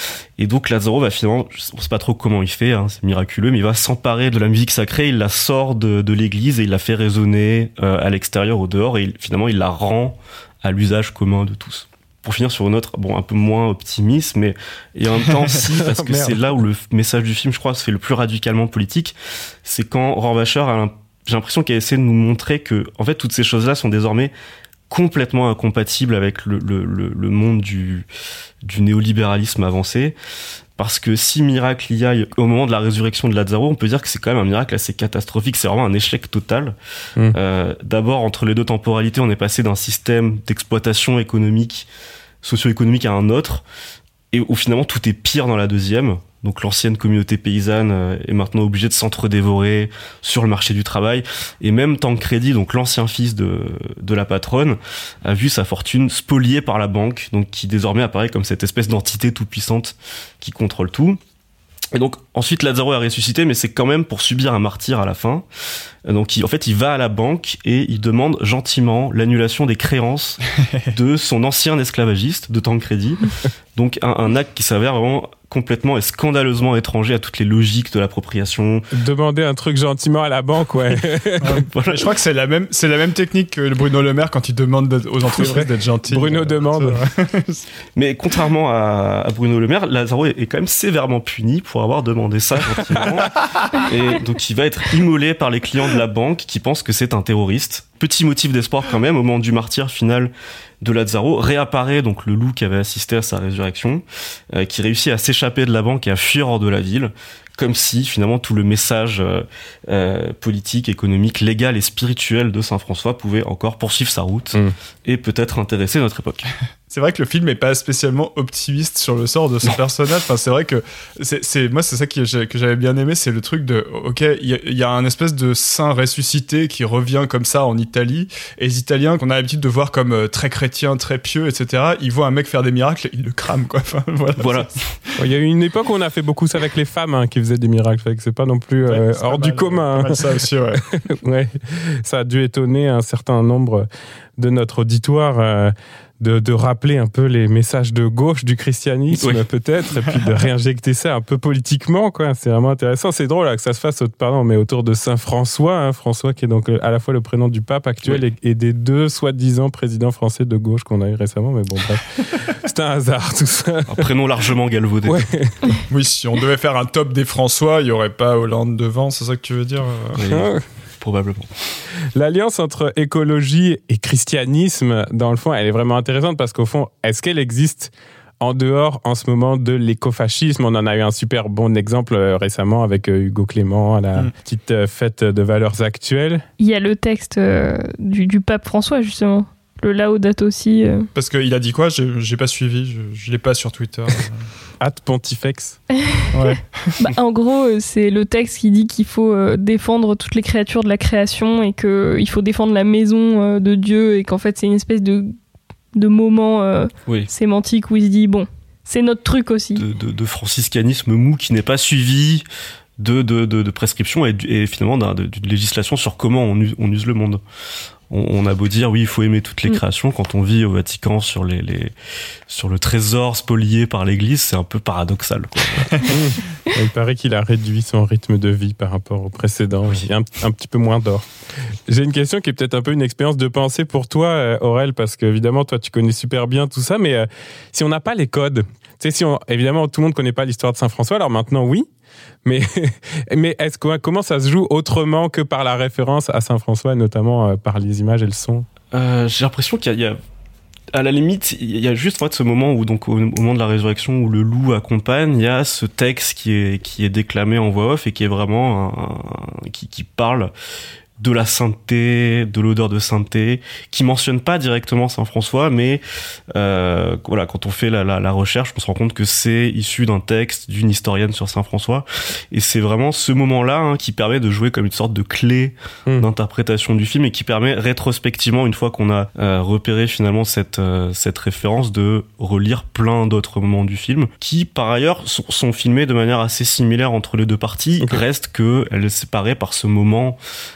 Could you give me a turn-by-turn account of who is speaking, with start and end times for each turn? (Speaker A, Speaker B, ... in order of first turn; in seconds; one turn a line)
Speaker A: 0.4-24.3
Speaker B: 15.7-16.4
Speaker A: 24.9-28.1
Speaker A: 28.6-30.1
Speaker A: 30.8-36.7
Speaker A: 37.3-41.9
Speaker A: 42.4-43.6
Speaker A: 44.3-61.2
Speaker A: 61.9-65.4
Speaker A: 66.0-78.9
Speaker B: 78.9-81.6
Speaker C: 81.4-87.6
Speaker A: 81.7-82.1
Speaker B: 85.2-87.0
Speaker A: 88.0-116.5
Speaker B: 92.8-93.2
Speaker C: 116.9-134.7
Speaker A: 134.4-134.7
Speaker B: 135.2-140.4
Speaker C: 138.8-140.9
Speaker B: 141.0-164.1
Speaker A: 149.1-149.4
Speaker A: 163.9-165.2
Speaker B: 165.1-165.8
Speaker C: 165.9-170.2
Speaker A: 170.2-171.5
Speaker B: 170.2-170.6
Speaker B: 172.1-186.4
Speaker D: 186.6-191.1
Speaker C: 191.1-194.5
Speaker B: 194.8-195.8
Speaker D: 196.0-196.4
Speaker C: 196.3-196.9
Speaker D: 197.0-205.3
Speaker D: 205.9-209.8
Speaker A: 209.8-212.4
Speaker A: 213.0-217.4
Speaker A: 218.1-221.9
Speaker A: 222.5-226.1
Speaker B: 226.1-231.3
Speaker B: 231.9-241.9
Speaker B: 242.4-248.7
Speaker A: 248.9-250.2
Speaker A: 250.9-260.5
Speaker A: 261.2-266.0
Speaker A: 266.5-290.4